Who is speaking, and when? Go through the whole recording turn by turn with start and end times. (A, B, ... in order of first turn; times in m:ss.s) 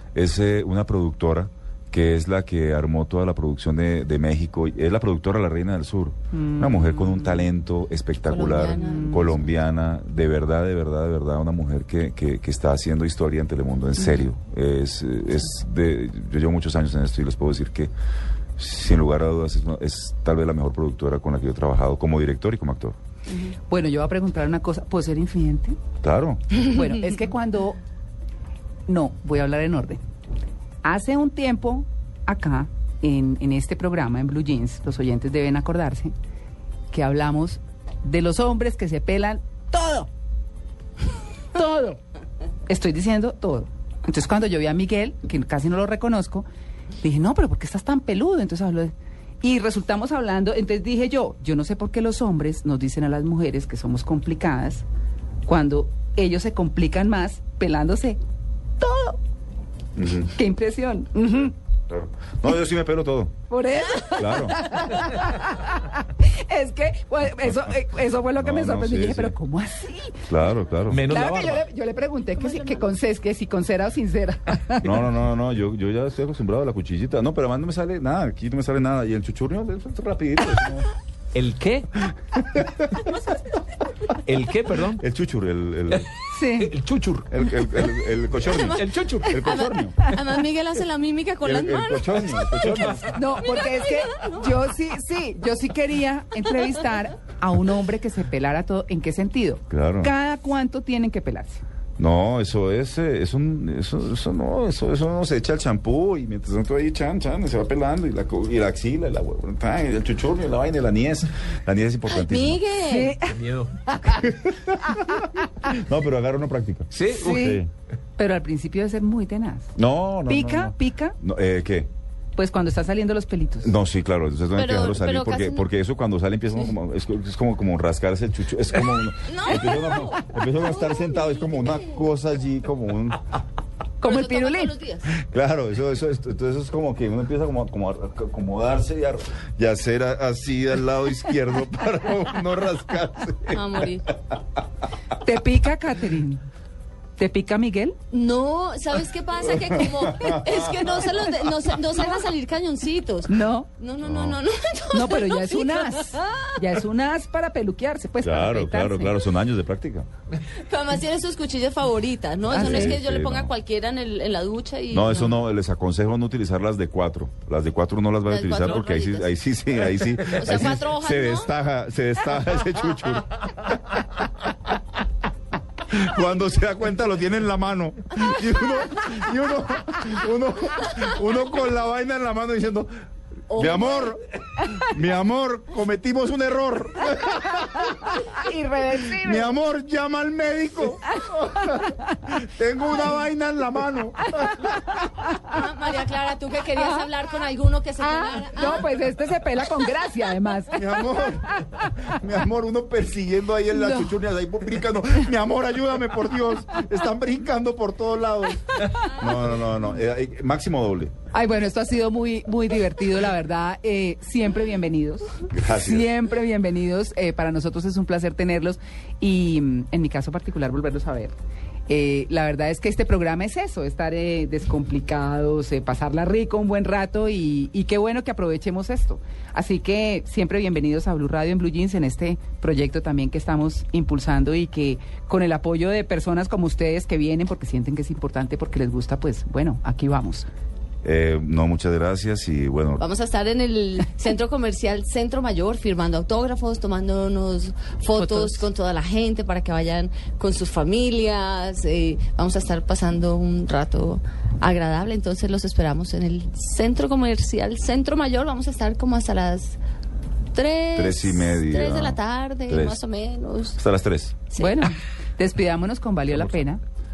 0:00.1-0:17.9 A
0:06.3-0:07.5 B
0:08.2-0:09.3 C
0:08.7-0:09.4 B
0:18.6-0:23.0 A
0:23.5-0:25.8 B
0:26.0-0:26.8 A
0:26.6-0:27.8 B
0:28.9-0:30.0 B
0:30.8-0:36.1 B
0:36.9-0:40.1 B
0:41.5-0:42.0 B
0:42.7-0:46.4 B
0:47.0-0:54.8 B
0:55.4-0:58.2 B
0:58.8-0:59.2 B
1:00.0-1:00.3 A
1:00.3-1:01.5 B
1:01.9-1:03.3 A
1:03.5-1:10.2 B
1:04.0-1:04.9 A
1:07.4-1:09.4 A
1:10.2-1:11.1 A
1:10.9-1:11.6 D
1:11.0-1:14.9 B
1:12.4-1:12.8 C
1:14.8-1:20.9 A
1:21.3-1:21.9 D
1:22.3-1:23.1 A
1:24.2-1:25.0 D
1:24.9-1:26.1 A
1:26.3-1:26.7 B
1:26.5-1:27.3 D
1:27.3-1:30.1 A
1:28.4-1:32.7 C
1:28.7-1:29.5 D
1:31.4-1:33.4 A
1:32.8-1:33.0 D
1:33.1-1:41.6 B
1:33.4-1:34.6 C
1:39.7-1:40.1 A
1:42.0-1:52.6 A
1:52.1-1:53.2 C
1:52.8-1:53.3 B
1:53.2-1:53.8 D
1:53.9-1:54.2 B
1:54.1-1:57.7 A
1:54.9-1:55.3 B
1:56.9-1:57.4 D
1:57.2-1:57.6 B
1:58.2-1:59.7 B
1:59.8-2:01.9 A
2:00.3-2:01.2 B
2:02.4-2:03.7 B
2:03.6-2:13.4 A
2:04.5-2:05.6 C
2:09.2-2:11.8 C
2:14.0-2:14.7 B
2:14.0-2:15.1 C
2:15.2-2:24.4 A
2:23.5-2:24.1 C
2:25.2-2:26.4 B
2:27.2-2:28.0 B
2:28.1-2:36.5 C
2:29.5-2:31.0 A
2:33.3-2:33.7 B
2:34.0-2:34.4 A
2:34.9-2:39.2 B
2:38.2-2:40.1 A
2:40.6-2:45.3 C
2:42.5-2:43.0 B
2:42.5-2:43.5 A
2:44.9-2:54.0 A
2:48.2-2:49.3 C
2:50.3-2:51.5 C
2:55.8-3:02.9 A
3:03.5-3:04.2 C
3:03.5-3:08.3 A
3:08.3-3:09.5 B
3:09.1-3:14.8 A
3:15.4-3:18.9 C
3:18.0-3:21.9 B
3:20.7-3:31.1 A
3:23.7-3:24.1 B
3:31.3-3:41.3 B
3:35.5-3:36.1 A
3:41.9-4:00.5 B
4:01.0-4:03.1 A
4:03.0-4:19.8 C
4:08.2-4:08.6 B
4:20.5-4:23.8 C
4:20.9-4:23.0 A
4:23.7-4:24.4 A
4:24.5-4:24.9 C
4:24.6-4:26.8 B